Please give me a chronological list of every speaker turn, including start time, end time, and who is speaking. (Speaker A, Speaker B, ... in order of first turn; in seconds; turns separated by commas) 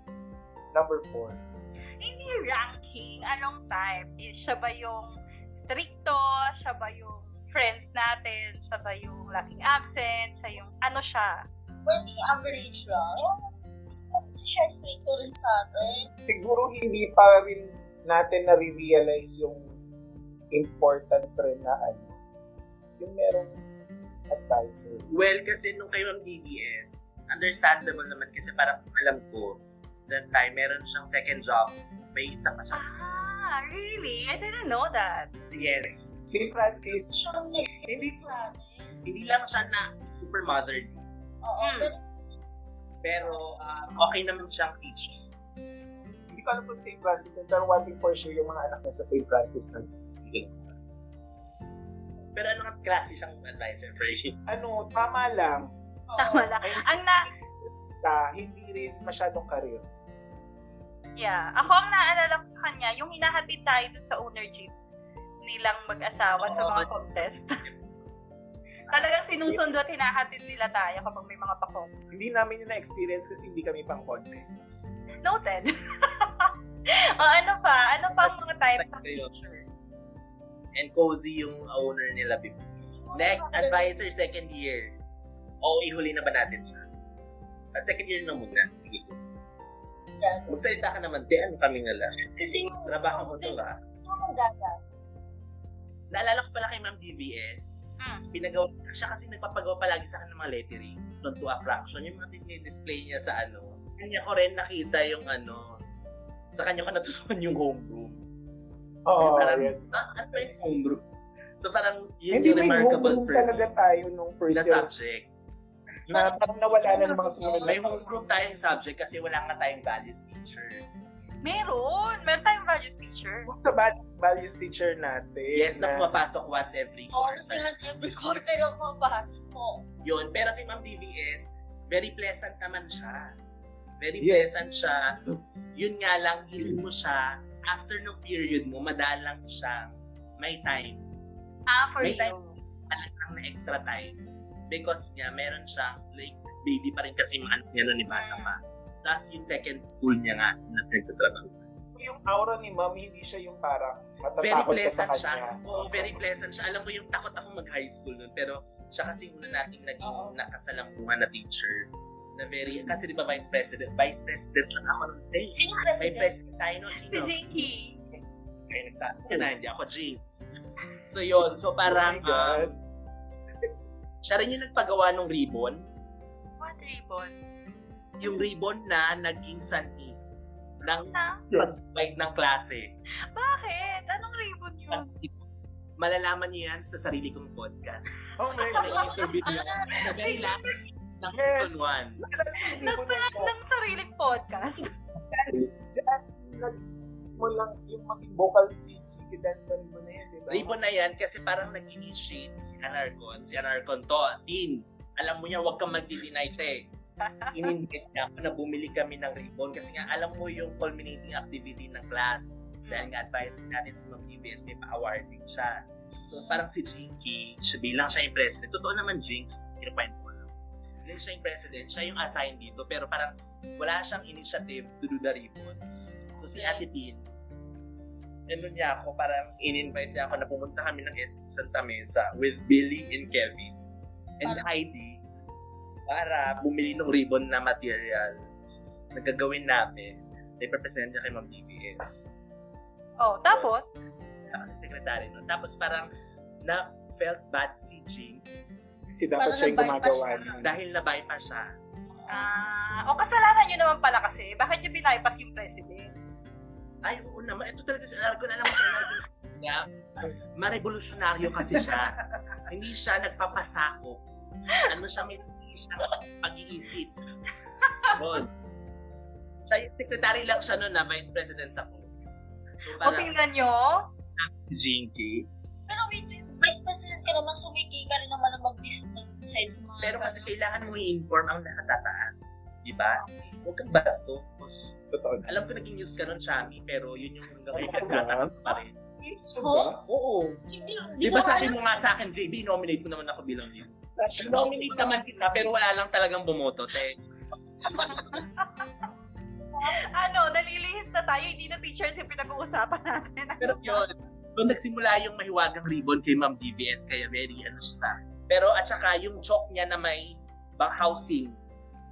Speaker A: 0.7-1.4, Speaker B: 2.0-11.4, Speaker C: 11.9-13.4, Speaker C: 14.1-16.1, Speaker A: 16.3-19.7, Speaker A: 20.5-22.2, Speaker A: 23.0-23.6, Speaker A: 24.3-25.1, Speaker D: 25.1-33.0, Speaker B: 32.7-35.3, Speaker D: 35.5-36.2, Speaker A: 36.3-37.3, Speaker C: 37.0-39.0, Speaker A: 37.9-38.3, Speaker D: 39.0-41.0, Speaker C: 41.4-42.0, Speaker B: 41.6-41.9, Speaker D: 43.0-45.3, Speaker A: 46.3-49.9, Speaker D: 50.2-50.7, Speaker D: 52.4-54.4, Speaker A: 54.5-55.7, Speaker C: 56.1-56.6, Speaker B: 56.2-57.3, Speaker A: 58.0-59.8, Speaker B: 61.2-64.7, Speaker B: 65.4-67.6, Speaker D: 66.4-66.9, Speaker B: 68.9-71.9, Speaker A: 72.1-74.7, Speaker B: 75.2-79.7, Speaker D: 78.2-79.3, Speaker D: 80.8-84.9, Speaker C: 82.8-84.0, Speaker D: 85.6-86.8, Speaker D: 87.7-89.2, Speaker C: 90.2-90.6, Speaker D: 90.5-92.2, Speaker C: 92.3-94.8, Speaker D: 92.9-93.8, Speaker D: 96.1-97.8, Speaker D: 98.3-105.8, Speaker D: 106.5-108.2, Speaker A: 109.1-110.5, Speaker D: 109.2-113.7, Speaker A: 112.3-114.9, Speaker D: 114.5-115.3, Speaker A: 116.1-118.0, Speaker C: 116.1-117.9, Speaker D: 117.6-120.8, Speaker B: 121.4-123.5, Speaker A: 123.5-126.1, Speaker D: 125.5-127.7, Speaker C: 127.1-129.8, Speaker D: 130.0-133.3, Speaker D: 134.0-135.2, Speaker A: 134.2-134.7, Speaker D: 135.8-141.0, Speaker B: 141.7-142.6, Speaker D: 142.0-142.4, Speaker D: 142.9-144.2, Speaker D: 144.7-151.6, Speaker B: 148.1-148.5, Speaker A: 152.0-156.2, Speaker D: 154.4-167.4, Speaker C: 160.0-160.4, Speaker C: 165.6-166.3, Speaker B: 167.0-168.0, Speaker D: 168.7-170.5, Speaker D: 171.1-172.8, Speaker A: 171.8-172.7, Speaker D: 174.2-175.8, Speaker B: 176.6-177.4, Speaker D: 178.2-180.2, Speaker D: 180.8-182.9, Speaker B: 181.1-181.4, Speaker B: 183.3-185.1, Speaker D: 184.9-185.4, Speaker D: 186.0-192.2, Speaker A: 188.4-189.5, Speaker C: 188.7-190.3, Speaker B: 190.0-190.7, Speaker A: 191.3-193.5, Speaker B: 192.7-194.9, Speaker A: 195.3-200.8, Speaker D: 200.5-206.9, Speaker B: 207.4-207.7, Speaker D: 207.5-220.5, Speaker B: 212.8-213.1, Speaker C: 216.2-216.6, Speaker D: 221.0-227.2, Speaker C: 226.5-226.9, Speaker D: 228.5-233.8, Speaker D: 234.4-235.2, Speaker D: 236.1-238.3, Speaker D: 239.1-242.3, Speaker B: 243.2-244.0, Speaker D: 244.5-246.1, Speaker D: 246.6-248.4, Speaker A: 249.2-250.7, Speaker C: 249.4-250.6, Speaker D: 250.6-251.7, Speaker B: 252.3-256.1, Speaker D: 257.0-264.2, Speaker A: 261.5-262.1, Speaker D: 264.8-267.1, Speaker B: 267.8-268.2, Speaker D: 268.1-268.5, Speaker D: 269.7-272.1, Speaker D: 272.8-273.3, Speaker B: 273.0-274.1, Speaker D: 274.4-275.5, Speaker C: 275.9-280.5, Speaker D: 280.0-288.9, Speaker A: 285.1-285.5, Speaker A: 287.7-290.0, Speaker C: 289.6-289.9, Speaker D: 290.1-290.6, Speaker C: 290.7-291.8, Speaker D: 291.2-297.2, Speaker A: 294.2-295.2, Speaker B: 298.0-298.9, Speaker B: 299.8-304.1, Speaker D: 303.6-311.6